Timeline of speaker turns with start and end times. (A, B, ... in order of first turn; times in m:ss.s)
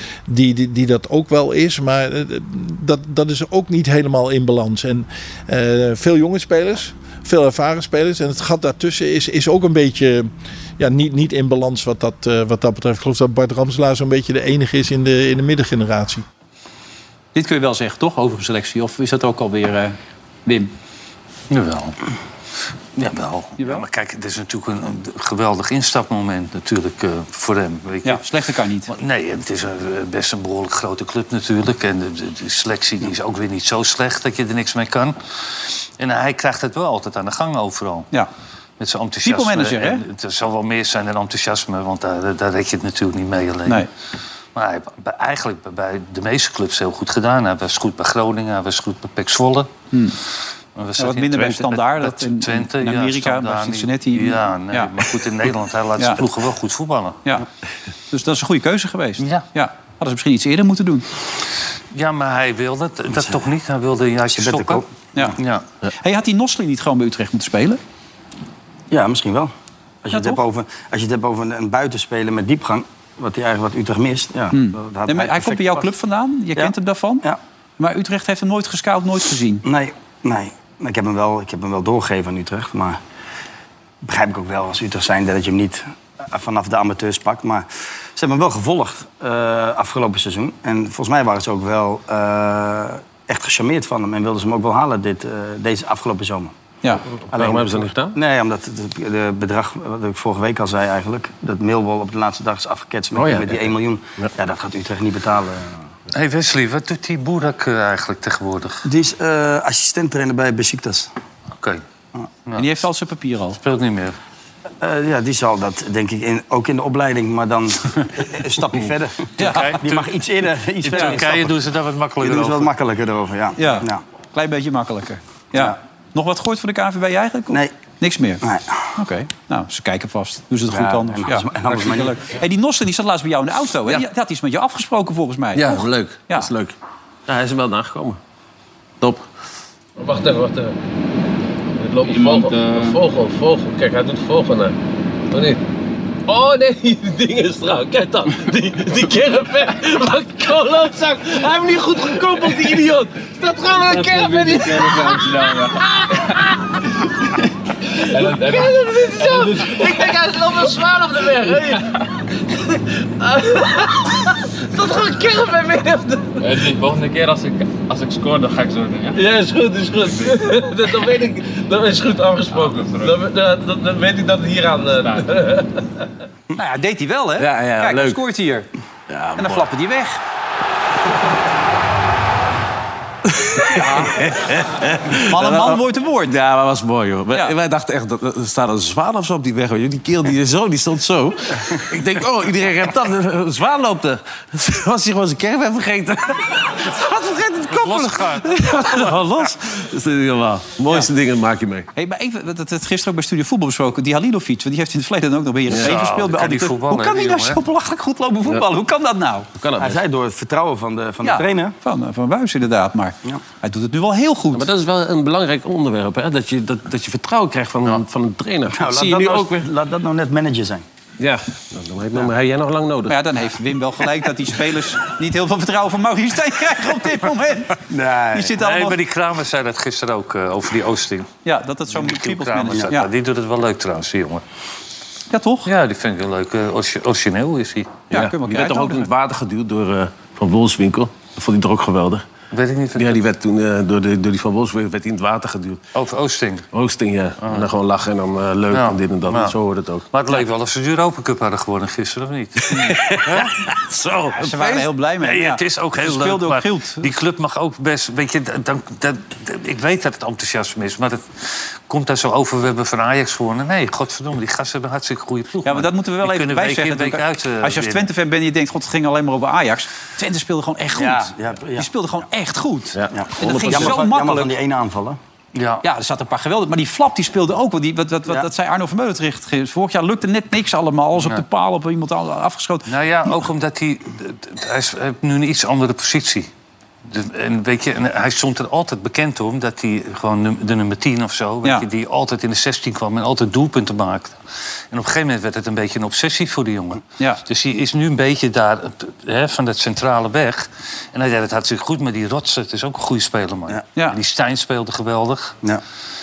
0:00.3-0:16.2 A
0:17.4-0:20.7 B
0:21.5-0:22.0 C
0:23.0-0:38.1 C
0:23.6-0:23.8 B
0:28.0-0:28.9 B
0:38.8-0:43.9 C
0:39.2-0:40.0 B
0:44.6-0:49.7 C
0:49.9-0:50.2 B
0:50.8-0:57.2 C
0:51.0-0:55.1 B
0:58.1-1:01.1 B
0:59.2-0:59.4 C
1:01.9-1:04.8 C
1:04.3-1:05.4 D
1:05.4-1:05.7 C
1:05.9-1:07.8 B
1:08.9-1:09.5 D
1:10.0-1:15.9 D
1:10.1-1:10.4 B
1:14.5-1:17.2 B
1:16.6-1:17.4 D
1:17.8-1:19.6 B
1:19.6-1:23.0 D
1:24.0-1:36.6 D
1:37.3-1:45.8 D
1:37.3-1:38.2 E
1:43.2-1:44.3 E
1:46.1-1:48.9 C
1:48.8-1:51.1 D
1:51.6-1:51.8 C
1:52.5-1:52.8 C
1:52.6-1:53.6 B
1:53.6-1:54.2 C
1:54.8-2:01.6 D
1:59.4-1:59.7 B
1:59.4-2:00.2 C
2:00.8-2:02.7 C
2:00.9-2:01.2 B
2:02.2-2:04.0 D
2:03.6-2:08.4 B
2:08.4-2:08.8 D
2:09.0-2:16.5 B
2:10.7-2:12.2 D
2:15.5-2:16.8 E
2:17.3-2:18.2 E
2:20.0-2:20.8 F
2:21.8-2:24.8 F
2:22.1-2:22.9 G
2:25.3-2:25.6 F
2:26.3-2:36.5 F
2:33.9-2:35.7 G
2:38.1-2:40.1 G
2:38.1-2:41.9 F
2:43.2-2:46.6 F
2:46.4-2:49.2 G
2:49.1-2:55.7 F
2:52.5-2:53.2 G
2:54.9-2:55.3 G
2:56.5-2:58.7 B
2:57.4-2:58.2 E
2:59.1-2:59.7 E
2:59.4-3:00.2 B
3:03.3-3:21.9 E
3:03.8-3:04.2 B
3:05.3-3:06.3 B
3:17.7-3:19.5 C
3:22.0-3:29.5 B
3:25.7-3:25.9 E
3:25.8-3:27.6 C
3:29.6-3:30.0 E
3:29.8-3:31.8 D
3:31.2-3:34.7 B
3:34.5-3:39.7 E
3:38.7-3:40.8 D
3:41.2-3:43.2 E
3:43.1-3:49.0 B
3:47.9-3:48.6 D
3:48.6-3:51.3 C
3:51.4-3:53.1 B
3:51.9-3:54.4 C
3:55.3-3:55.7 B
3:55.7-3:58.1 C
3:58.1-3:59.1 B
3:58.1-4:02.2 E
4:02.5-4:03.2 C
4:03.0-4:05.8 E
4:05.9-4:06.7 C
4:06.7-4:10.1 E
4:07.4-4:07.7 C
4:08.7-4:09.6 C
4:10.1-4:13.5 C
4:12.7-4:14.9 E
4:14.4-4:17.1 B
4:15.2-4:28.1 C
4:25.6-4:34.5 B
4:31.0-4:31.9 D
4:32.9-4:34.0 E
4:33.1-4:35.2 D
4:35.6-4:35.8 C
4:35.8-4:42.9 B
4:41.2-4:41.4 C
4:42.9-4:46.5 C
4:47.1-4:54.4 C
4:54.9-5:05.6 C